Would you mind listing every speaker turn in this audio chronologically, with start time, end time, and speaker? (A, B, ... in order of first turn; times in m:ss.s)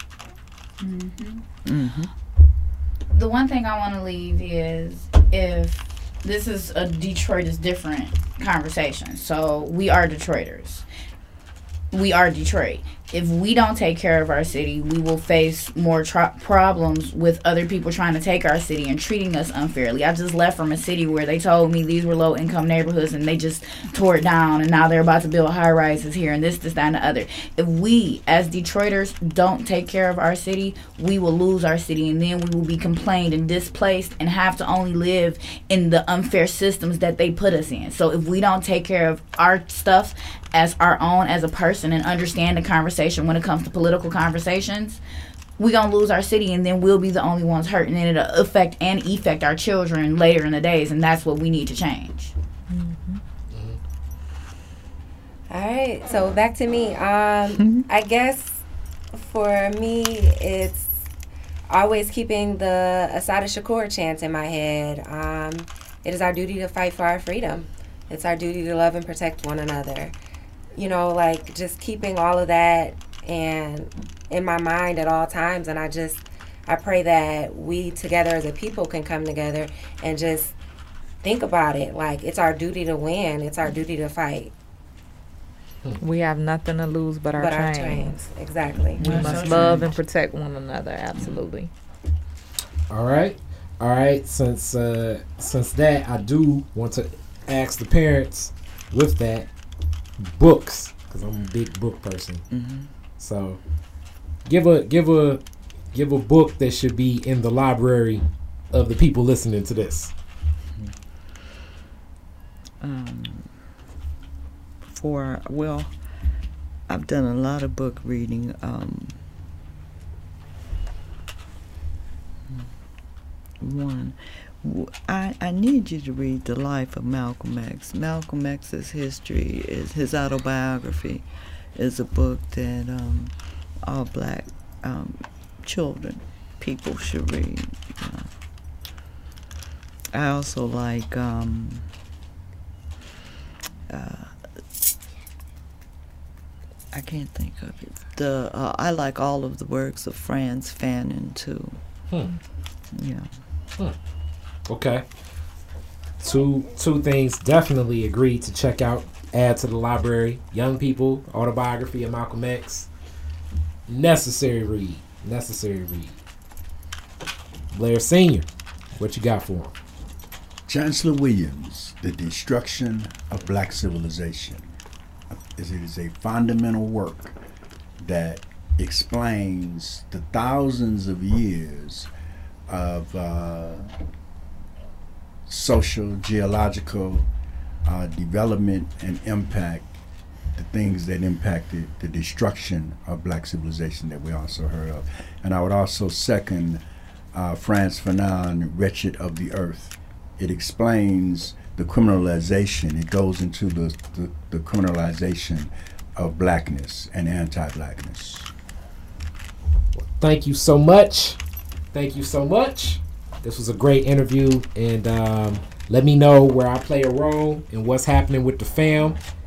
0:00.8-0:01.4 A
0:01.6-0:02.1 B
0:03.1-0:10.9 A
0:11.9-0:45.0 A
0:45.6-0:52.3 A
0:52.7-0:53.2 C
0:53.5-0:53.8 D
0:55.5-1:01.1 E
1:01.7-1:10.2 E
1:10.8-1:20.6 E
1:21.2-1:24.5 E
1:26.0-1:28.3 C
1:27.3-1:29.8 E
1:29.0-1:29.9 A
1:29.0-1:31.7 C
1:32.9-1:39.5 D
1:40.2-1:42.4 D
1:42.5-1:42.9 B
1:43.2-1:43.6 D
1:44.5-1:45.4 D
1:45.9-1:50.1 D
1:52.8-1:53.5 B
1:54.8-1:55.9 B
1:56.9-1:59.2 B
2:03.6-2:11.2 B
2:11.8-2:13.4 B
2:13.9-2:18.3 B
2:20.1-2:21.9 B
2:23.9-2:24.3 B
2:26.9-2:31.8 B
2:32.9-2:33.3 B
2:34.7-2:35.0 D
2:36.2-2:42.9 D
2:43.9-2:46.2 D
2:47.7-2:49.7 D
2:50.7-2:54.7 F
2:55.4-2:57.4 F
2:58.0-3:02.1 F
3:02.7-3:04.0 F
3:05.5-3:07.3 F
3:07.8-3:10.0 F
3:10.6-3:16.8 F
3:17.3-3:28.5 F
3:30.0-3:31.4 D
3:31.9-3:39.2 D